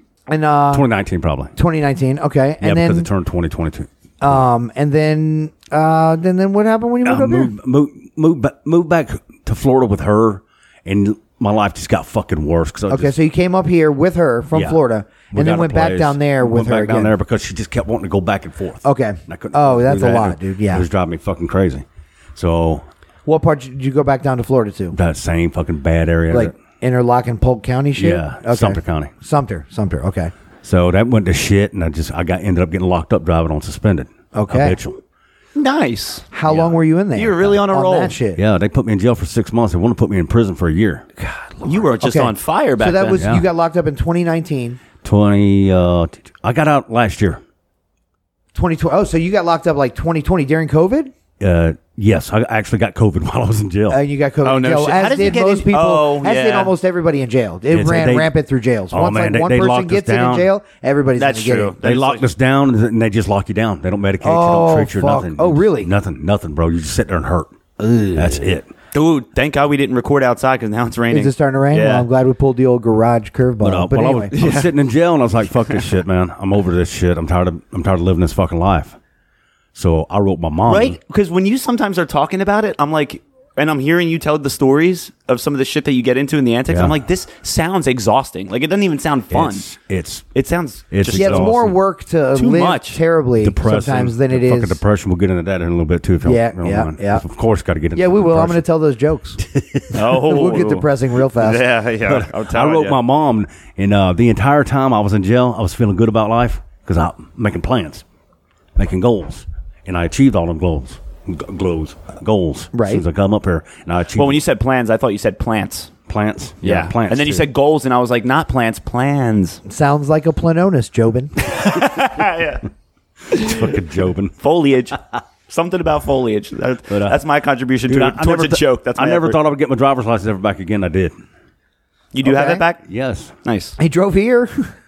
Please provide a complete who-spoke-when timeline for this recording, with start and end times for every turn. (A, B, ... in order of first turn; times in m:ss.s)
0:00.3-0:00.9 A
0:00.7-0:01.5 B
0:01.6-0:03.1 A
0:02.6-0:04.4 B
0:04.2-0:07.5 A
0:07.0-0:13.1 B
0:12.9-0:17.1 A
0:14.5-0:14.8 B
0:15.3-0:21.8 B
0:18.8-0:20.8 A
0:22.4-0:22.8 B
0:23.3-0:25.0 A
0:24.9-0:26.5 B
0:26.3-0:30.3 A
0:28.0-0:29.1 B
0:30.6-0:35.0 B
0:34.3-0:34.8 A
0:35.6-0:36.6 C
0:36.3-0:38.4 A
0:37.1-0:38.2 C
0:38.4-0:41.1 B
0:41.2-0:44.8 A
0:41.6-0:43.2 C
0:43.2-0:43.4 B
0:45.0-0:47.4 B
0:48.5-0:51.1 A
0:51.4-0:54.0 B
0:53.9-1:01.8 A
0:54.4-0:56.7 C
0:57.7-0:58.3 B
0:58.9-1:00.5 B
1:01.2-1:02.3 C
1:01.8-1:07.5 B
1:04.2-1:05.9 A
1:08.1-1:08.7 B
1:08.9-1:12.1 C
1:11.1-1:14.3 A
1:13.6-1:19.0 B
1:14.3-1:14.7 C
1:19.8-1:21.0 B
1:20.7-1:29.7 C
1:26.7-1:26.9 B
1:29.3-1:30.3 B
1:30.4-1:31.6 C
1:30.9-1:31.8 B
1:31.1-1:34.8 A
1:32.3-1:33.0 C
1:33.4-1:38.6 B
1:36.2-1:37.2 A
1:38.0-1:39.4 A
1:39.4-1:39.9 B
1:39.9-1:40.9 C
1:40.1-1:41.6 A
1:41.4-1:43.0 C
1:42.1-1:48.0 B
1:48.8-1:54.4 B
1:52.7-1:53.0 A
1:54.2-1:55.9 C
1:56.1-1:57.5 B
1:56.6-1:59.6 C
1:59.7-2:01.3 A
2:01.4-2:02.6 C
2:03.3-2:03.6 C
2:03.3-2:04.4 B
2:04.4-2:09.4 C
2:06.9-2:07.2 B
2:07.9-2:11.1 B
2:12.1-2:12.8 C
2:12.2-2:12.6 A
2:12.8-2:13.3 B
2:13.4-2:13.8 C
2:13.8-2:14.7 A